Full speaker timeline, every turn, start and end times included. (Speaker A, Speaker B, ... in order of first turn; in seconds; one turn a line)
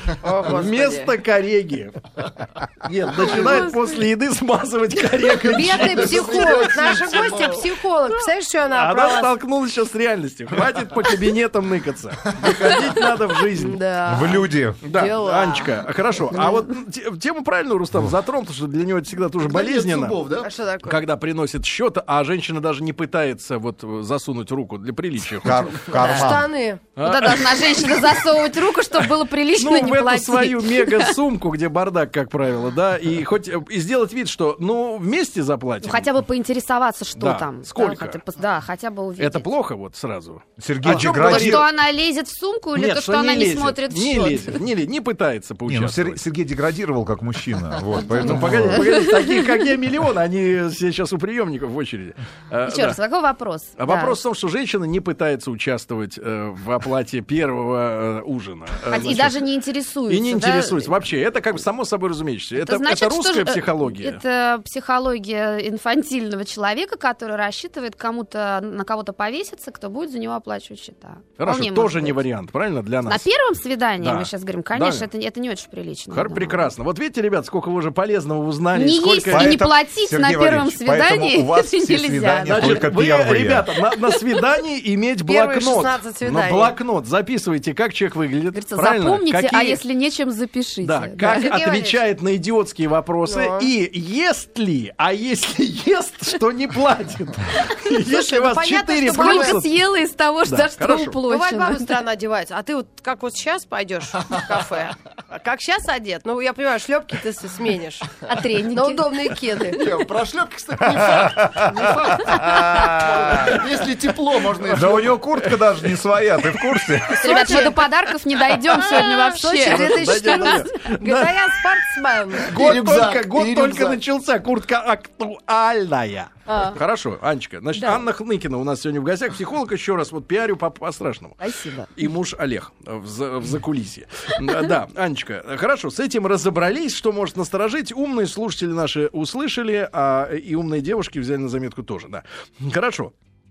Speaker A: 0.2-1.1
Speaker B: 0.4-6.8
Speaker C: 3.4-3.8
Speaker A: 5.5-9.3
Speaker D: 5.8-7.7
Speaker B: 8.7-13.8
Speaker A: 13.5-15.8
Speaker E: 14.0-14.8
Speaker B: 14.8-20.2
Speaker C: 16.3-16.6
Speaker D: 19.4-20.5
Speaker A: 20.4-21.0
Speaker B: 20.8-26.3
Speaker E: 25.4-26.5
Speaker A: 25.9-26.8
Speaker B: 26.9-28.1
Speaker C: 27.0-31.1
Speaker B: 29.5-36.1
Speaker C: 35.8-39.5
Speaker B: 37.1-38.2
Speaker B: 39.2-41.7
Speaker E: 40.6-41.7
Speaker C: 40.9-44.6
Speaker B: 42.7-46.2
Speaker E: 45.7-48.9
Speaker C: 48.0-49.4
Speaker B: 48.1-53.0
Speaker C: 52.6-54.2
Speaker B: 53.8-59.4
Speaker C: 58.9-61.0
Speaker B: 60.1-64.2
Speaker C: 62.5-72.2
Speaker B: 71.4-73.3
Speaker C: 73.1-76.7
Speaker B: 74.0-75.1
Speaker B: 76.1-79.7
Speaker C: 78.7-82.9
Speaker E: 79.3-83.7
Speaker B: 82.4-89.8
Speaker A: 85.2-86.7
Speaker C: 88.5-91.6
Speaker B: 90.8-99.7
Speaker A: 91.2-92.0
Speaker A: 93.2-93.7
Speaker A: 98.0-99.6
Speaker C: 99.1-102.0
Speaker B: 100.4-101.2
Speaker A: 101.3-109.8
Speaker C: 108.2-109.2
Speaker D: 109.7-115.2
Speaker E: 110.9-113.6
Speaker E: 114.7-117.4
Speaker B: 114.9-115.5
Speaker B: 116.5-116.9
Speaker A: 117.1-117.9
Speaker C: 117.2-120.9
Speaker A: 118.7-122.5
Speaker B: 118.8-121.3
Speaker B: 122.4-131.4
Speaker D: 122.5-124.0
Speaker A: 126.5-126.8
Speaker C: 127.8-128.0
Speaker C: 131.4-131.9
Speaker B: 131.9-143.1